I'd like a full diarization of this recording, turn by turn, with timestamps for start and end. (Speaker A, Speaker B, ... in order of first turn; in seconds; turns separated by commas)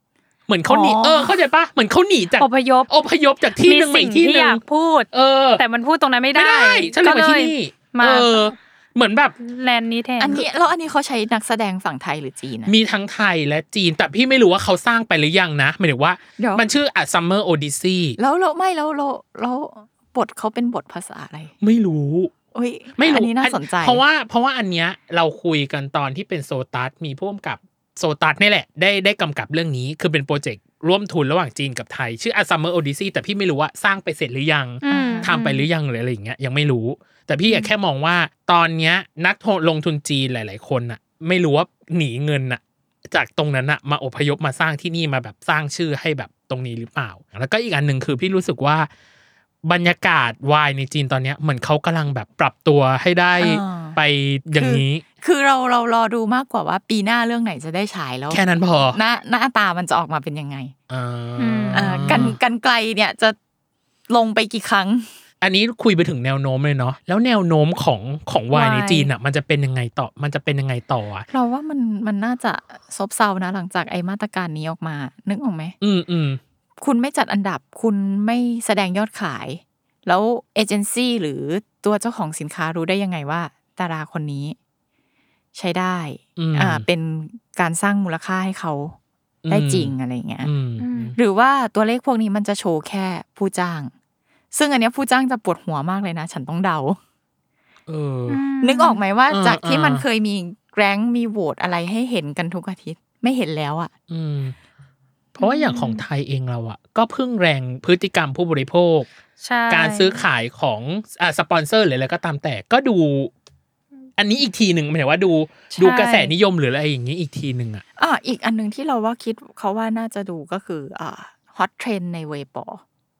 Speaker A: 0.5-5.6, Speaker B: 0.7-1.3, Speaker C: 2.4-2.9, Speaker C: 3.5-8.5, Speaker A: 6.3-9.3, Speaker C: 9.4-10.4, Speaker B: 10.2-12.7, Speaker A: 12.6-18.2, Speaker B: 16.4-16.6, Speaker B: 18.2-21.5, Speaker A: 21.6-22.3, Speaker B: 22.5-24.0, Speaker A: 22.9-48.9, Speaker C: 34.8-35.6, Speaker B: 34.8-35.4, Speaker A: 49.6-55.0, Speaker B: 53.4-54.0, Speaker B: 54.5-58.4, Speaker A: 58.3-59.0, Speaker B: 58.9-60.7, Speaker A: 60.9-62.4, Speaker C: 61.4-62.4, Speaker B: 61.7-63.4, Speaker B: 64.1-65.1, Speaker A: 65.4-71.3, Speaker C: 68.5-69.1, Speaker B: 71.3-75.8, Speaker A: 75.8-76.4, Speaker B: 76.8-84.6, Speaker B: 85.5-89.0, Speaker A: 86.4-86.8, Speaker A: 89.4-91.2, Speaker B: 89.5-90.5, Speaker C: 90.8-91.2, Speaker B: 91.2-93.9, Speaker B: 94.5-97.0, Speaker A: 97.9-98.4, Speaker C: 98.3-99.0, Speaker B: 98.6-103.9, Speaker A: 99.3-100.0, Speaker A: 104.1-104.5, Speaker A: 105.3-109.1, Speaker C: 105.4-106.0, Speaker C: 109.4-110.2, Speaker A: 109.7-113.3, Speaker A: 114.2-117.8, Speaker C: 115.7-116.3, Speaker B: 118.0-122.8